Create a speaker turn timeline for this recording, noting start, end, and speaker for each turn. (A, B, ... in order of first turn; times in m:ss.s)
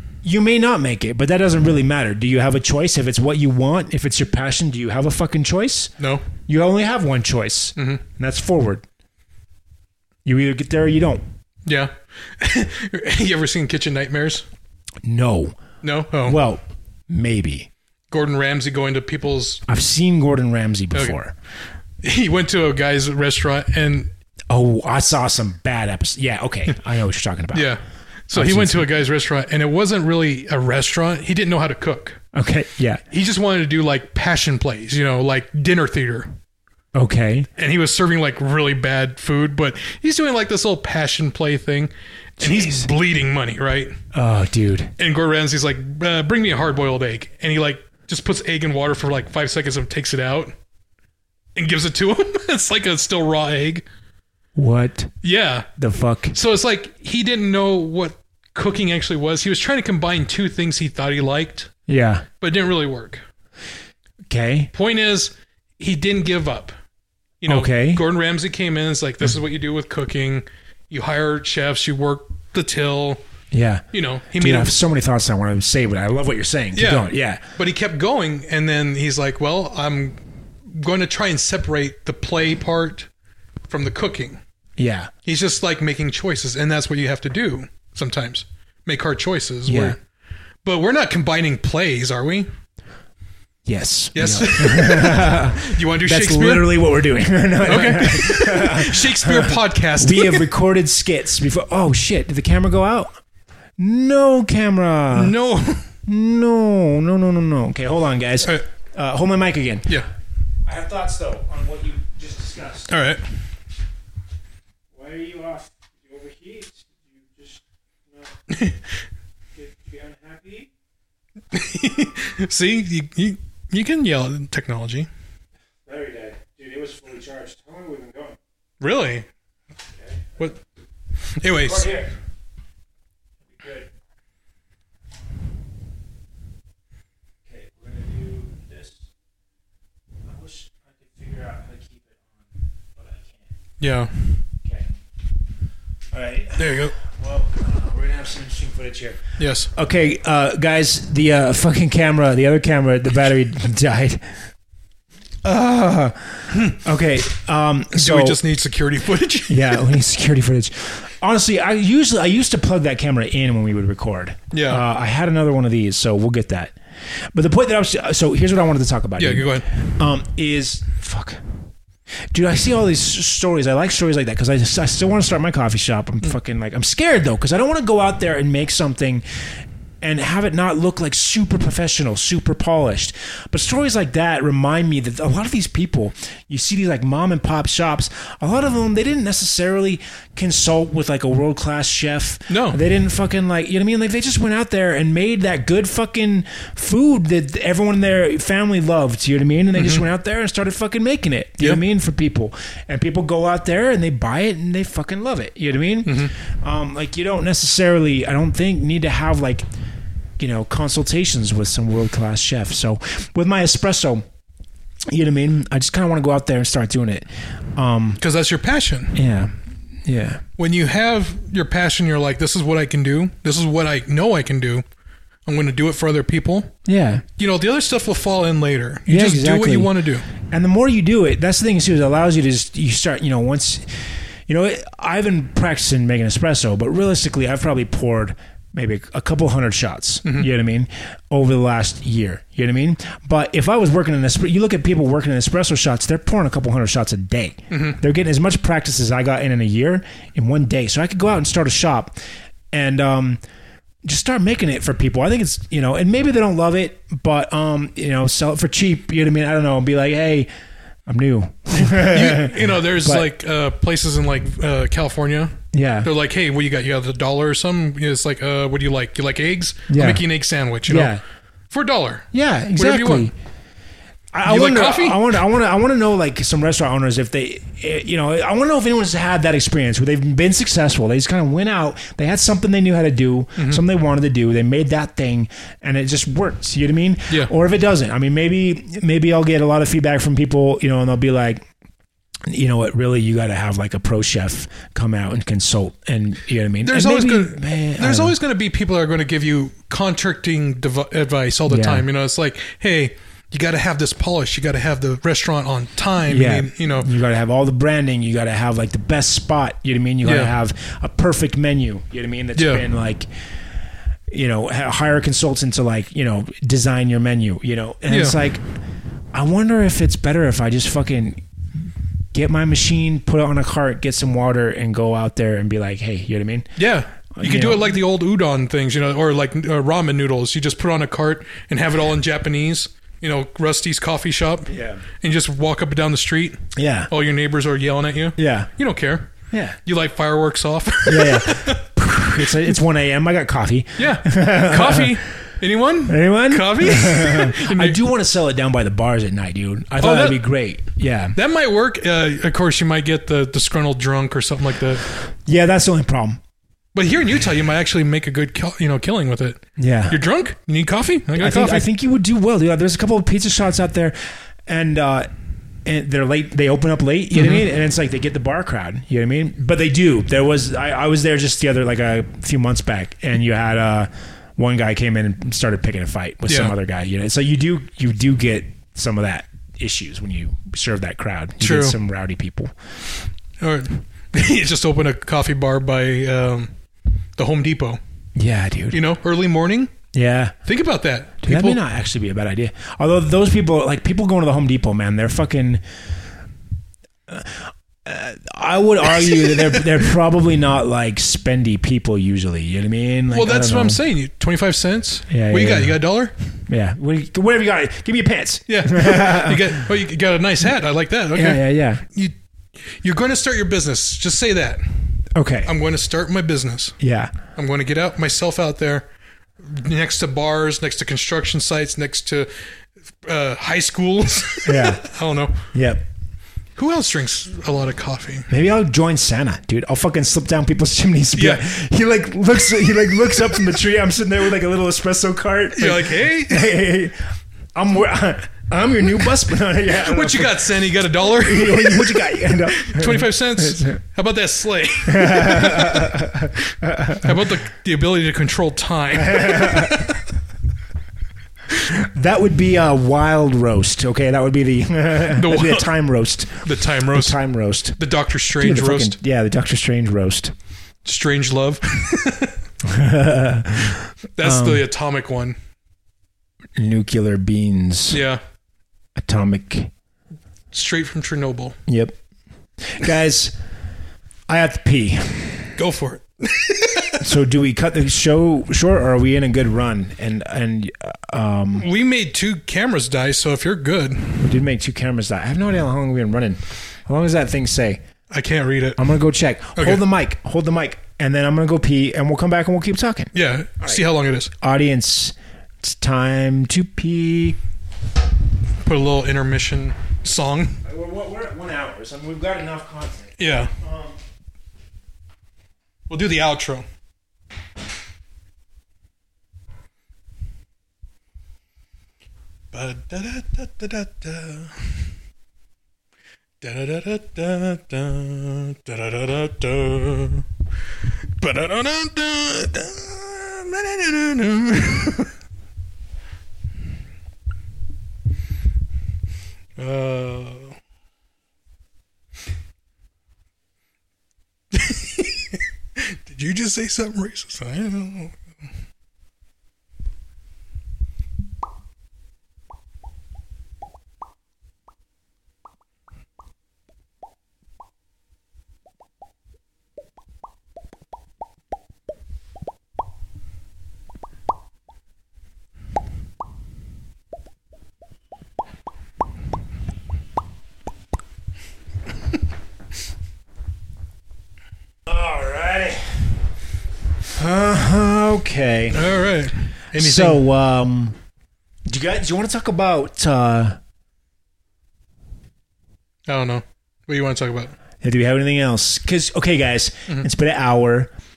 0:00.2-0:08.8 A
0:06.0-0:06.3 B
0:10.2-0:11.2 A
0:11.6-0:14.5 B
0:15.0-0:15.6 A
0:15.8-0:16.4 B
0:16.2-0:17.7 A
0:18.1-0:19.6 B
0:19.7-0:21.3 A
0:22.0-0:24.1 B
0:24.5-0:27.8 A
0:27.5-0:32.2 B
0:28.3-0:28.9 A
0:32.3-0:33.0 A
0:33.1-0:36.3 B
0:36.9-0:37.5 A
0:37.6-0:44.0 B
0:42.4-0:42.9 A
0:44.1-0:44.9 A
0:45.0-0:50.5 B
0:51.5-0:53.8 B
0:54.6-0:55.1 A
0:55.2-0:55.7 B
0:55.8-0:56.4 A
0:56.3-1:01.7 B
1:01.9-1:02.3 A
1:02.4-1:03.2 B
1:04.3-1:04.7 A
1:04.7-1:06.7 B
1:07.4-1:13.2 B
1:07.4-1:08.0 A
1:13.5-1:13.8 A
1:13.9-1:14.7 B
1:14.4-1:17.4 A
1:16.7-1:23.1 B
1:23.7-1:24.4 B
1:24.8-1:25.1 A
1:25.2-1:30.0 B
1:29.7-1:30.0 A
1:30.6-1:32.5 B
1:33.6-1:43.1 A
1:34.1-1:36.7 B
1:37.6-1:40.4 B
1:43.8-1:45.3 A
1:45.1-1:45.9 B
1:46.0-1:50.0 A
1:50.6-1:52.9 A
1:52.9-1:53.2 B
1:54.9-1:58.4 A
1:58.5-1:58.8 B
1:59.5-2:00.7 A
2:01.5-2:05.1 B
2:05.8-2:08.4 A
2:08.8-2:09.3 B
2:09.9-2:10.6 A
2:11.3-2:11.9 B
2:11.5-2:12.1 A
2:13.5-2:13.9 A
2:17.5-2:19.0 A
2:20.2-2:23.5 A
2:23.8-2:24.2 B
2:24.6-2:24.9 A
2:26.1-2:34.4 A
2:26.6-2:26.9 B
2:29.4-2:29.7 B
2:35.4-2:38.4 A
2:37.9-2:39.9 B
2:39.5-2:46.7 A
2:44.5-2:44.8 B
2:47.3-2:51.4 A
2:49.2-2:49.8 B
2:52.3-2:59.2 A
3:00.0-3:29.6 A
3:12.5-3:12.8 B
3:19.7-3:20.0 B
3:26.0-3:26.3 B
3:30.4-3:34.2 A
3:35.1-3:38.2 A
3:38.2-3:39.2 B
3:39.1-3:40.4 A
3:40.6-3:44.8 B
3:45.4-3:46.7 B
3:46.8-3:47.2 A
3:47.4-3:50.3 B
3:49.1-4:12.2 A
4:07.7-4:08.0 B
4:12.7-4:13.4 A
4:14.0-4:20.5 A
4:21.1-4:23.3 A
4:21.7-4:31.1 B
4:25.7-4:26.1 A
4:29.9-4:30.2 A
4:30.8-4:31.2 A
4:31.7-4:33.3 B
4:32.3-4:33.3 A
4:34.3-4:51.7 A
4:34.4-4:35.3 B
4:43.6-4:43.8 B
4:52.5-4:58.4 A
4:56.8-5:07.1 B
5:01.7-5:02.0 A
5:06.3-5:13.3 A
5:10.2-5:10.5 B
5:12.6-5:12.8 B
5:14.3-5:18.6 A
5:18.1-5:18.4 B
5:19.3-5:21.4 A
5:22.3-5:26.8 A
5:26.8-5:39.3 B
5:27.3-5:27.9 A
5:34.7-5:35.0 A
5:36.7-5:37.1 A
5:38.4-5:38.7 A
5:39.5-5:39.8 A
5:39.8-5:41.8 B
5:41.0-5:45.2 A
5:44.0-5:48.0 B
5:46.1-5:51.4 A
5:50.0-5:50.5 B
5:51.3-5:55.0 B
5:55.4-5:56.4 A
5:56.9-6:01.9 B
5:59.8-6:00.2 A
6:01.4-6:04.1 A
6:04.7-6:05.3 A
6:05.8-6:22.7 A
6:07.3-6:07.6 B
6:16.5-6:16.7 B
6:21.6-6:22.0 B
6:23.6-6:26.7 B
6:27.4-6:28.0 B
6:28.4-6:29.0 A
6:28.9-6:29.9 B
6:30.1-6:30.5 A
6:30.6-6:31.8 B
6:31.4-6:35.8 A
6:37.3-6:44.0 A
6:39.1-6:40.0 B
6:43.3-6:46.3 B
6:45.3-6:46.0 A
6:46.7-6:49.8 A
6:48.7-6:57.0 B
6:51.3-6:52.0 A
6:55.3-6:55.7 A
6:57.0-6:57.3 A
6:57.6-6:59.1 B
6:59.6-7:02.5 B
7:03.2-7:05.6 B
7:04.6-7:05.0 A
7:05.7-7:06.0 A
7:06.8-7:08.5 B
7:08.5-7:17.2 A
7:11.3-7:11.6 B
7:15.7-7:16.8 B
7:17.7-7:24.0 A
7:20.0-7:26.2 B
7:25.0-7:27.4 A
7:27.2-7:30.2 B
7:29.2-7:30.1 A
7:31.7-7:38.0 A
7:35.2-7:35.9 B
7:36.6-7:37.4 B
7:38.0-7:39.2 B
7:38.6-7:40.5 A
7:41.0-7:42.6 B
7:42.8-7:44.8 A
7:44.4-7:45.6 B
7:46.8-7:48.2 A
7:48.1-7:48.4 B
7:49.2-7:49.9 A
7:50.7-7:51.8 B
7:51.9-7:52.2 A
7:52.8-7:53.5 A
7:54.5-7:55.7 A
7:55.8-7:57.2 B
7:57.2-8:01.9 A
8:01.8-8:04.5 B
8:04.4-8:08.0 A
8:08.3-8:09.0 B
8:09.0-8:14.0 A
8:09.8-8:10.0 B
8:13.3-8:14.5 B
8:14.6-8:17.6 A
8:18.8-8:20.8 B
8:20.8-8:24.2 A
8:23.4-8:23.7 B
8:26.1-8:26.8 B
8:32.7-8:35.1 B
8:36.6-8:40.5 B
8:41.0-8:45.3 B
8:49.8-8:50.8 B
8:54.7-8:58.4 B
9:25.1-9:26.3 A
9:27.3-9:29.0 A
9:28.9-9:30.4 B
9:29.9-9:31.2 A
9:31.9-9:33.8 A
9:36.3-9:37.7 B
9:38.0-9:41.1 A